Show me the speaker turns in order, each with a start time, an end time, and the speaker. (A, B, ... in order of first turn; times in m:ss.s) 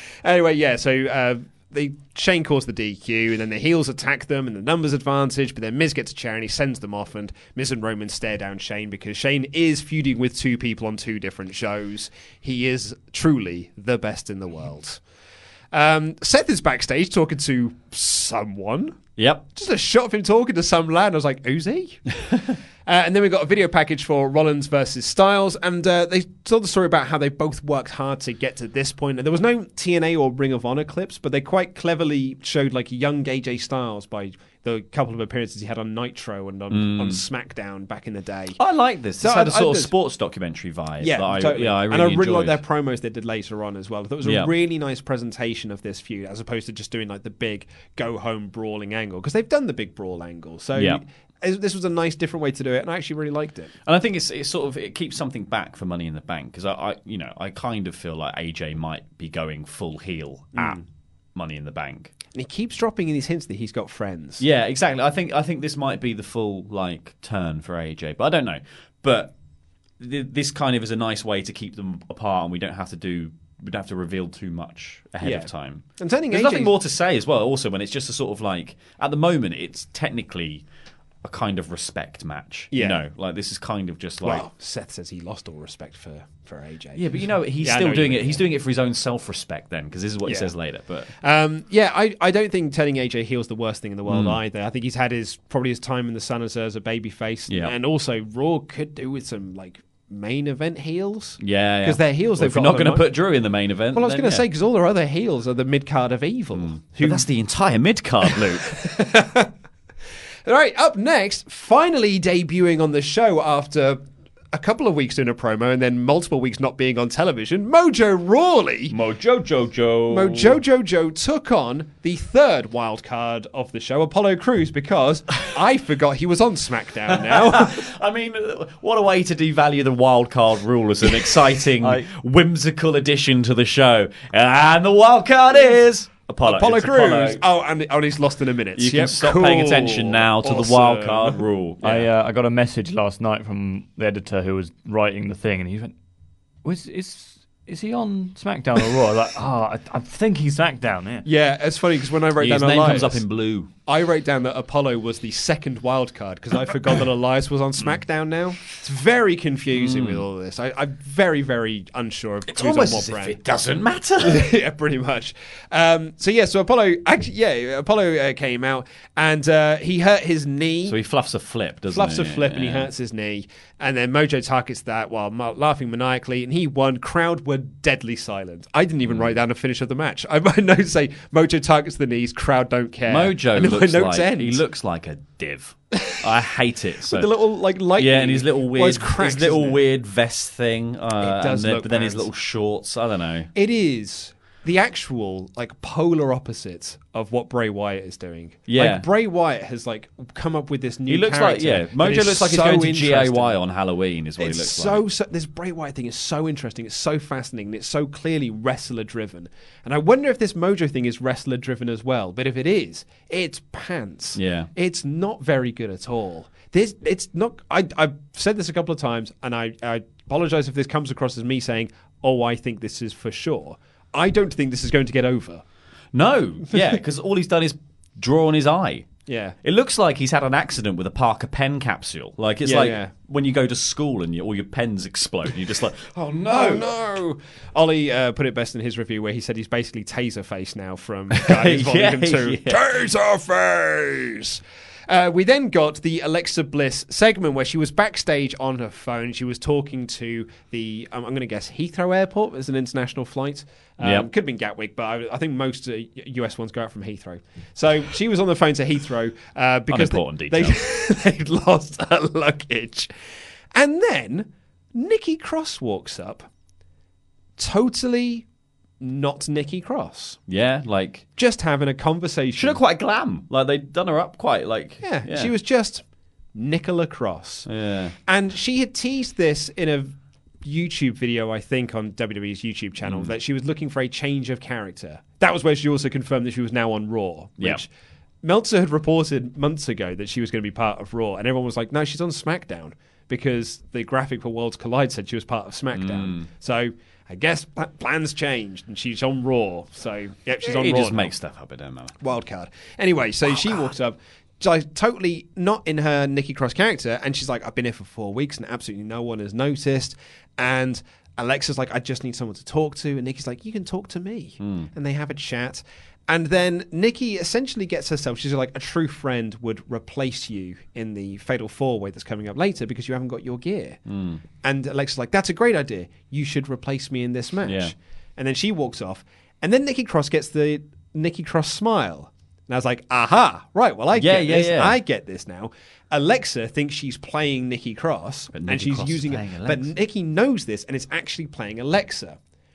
0:00.2-0:15.0 A
0:15.7-0:19.0 A
0:19.2-0:19.4 B
0:19.5-0:22.0 A
0:22.8-0:38.6 A
0:36.7-0:37.2 B
0:38.6-0:42.6 B
0:39.2-0:39.9 A
0:41.0-0:53.7 A
0:44.2-0:44.5 B
0:50.7-0:51.0 B
0:53.8-1:00.8 B
1:00.5-1:00.8 A
1:01.3-1:02.1 B
1:02.3-1:04.4 A
1:04.4-1:09.3 B
1:10.0-1:20.6 B
1:15.2-1:16.7 A
1:21.2-1:24.5 B
1:22.7-1:23.0 A
1:24.2-1:28.5 A
1:26.9-1:31.1 B
1:30.2-1:30.5 A
1:31.2-1:43.1 A
1:34.0-1:34.4 B
1:37.5-1:37.7 B
1:41.4-1:44.4 B
1:43.9-1:47.3 A
1:46.5-1:48.8 B
1:48.3-1:49.5 A
1:50.4-1:54.0 A
1:54.5-1:58.9 A
1:58.9-2:00.6 B
2:00.1-2:07.8 A
2:07.1-2:17.4 B
2:11.8-2:12.1 C
2:16.4-2:21.4 A
2:18.8-2:22.1 B
2:21.8-2:25.9 C
2:26.6-2:31.2 C
2:31.2-2:33.2 A
2:32.4-2:33.7 B
2:33.8-2:43.4 A
2:39.7-2:40.2 B
2:42.5-2:44.5 B
2:44.2-2:51.0 A
2:50.8-2:52.9 B
2:51.9-3:04.6 A
3:03.0-3:07.4 B
3:07.0-3:09.8 A
3:07.9-3:13.5 B
3:11.2-3:12.3 A
3:13.5-3:23.6 A
3:18.7-3:19.0 B
3:21.1-3:25.0 B
3:24.4-3:45.6 A
3:34.3-3:34.7 B
3:46.1-3:49.1 B
3:49.3-3:49.6 A
3:49.6-3:56.9 B
3:52.6-3:53.1 A
3:56.5-4:23.1 A
4:01.3-4:02.8 B
4:14.0-4:14.3 B
4:19.9-4:20.8 B
4:23.7-4:26.5 A
4:27.6-4:28.4 A
4:29.0-4:30.4 A
4:30.5-4:31.2 B
4:31.4-4:32.8 A
4:32.6-4:35.5 B
4:35.0-4:36.0 A
4:36.5-4:37.7 A
4:37.6-4:38.1 B
4:38.2-4:47.9 A
4:43.0-4:43.3 B
4:48.4-5:01.3 A
4:55.9-4:56.5 B
5:00.6-5:02.2 B
5:02.2-5:24.0 A
5:14.6-5:14.9 B
5:24.0-5:24.4 B
5:24.6-5:42.4 A
5:27.6-5:27.9 B
5:34.1-5:35.0 B
5:38.5-5:39.9 B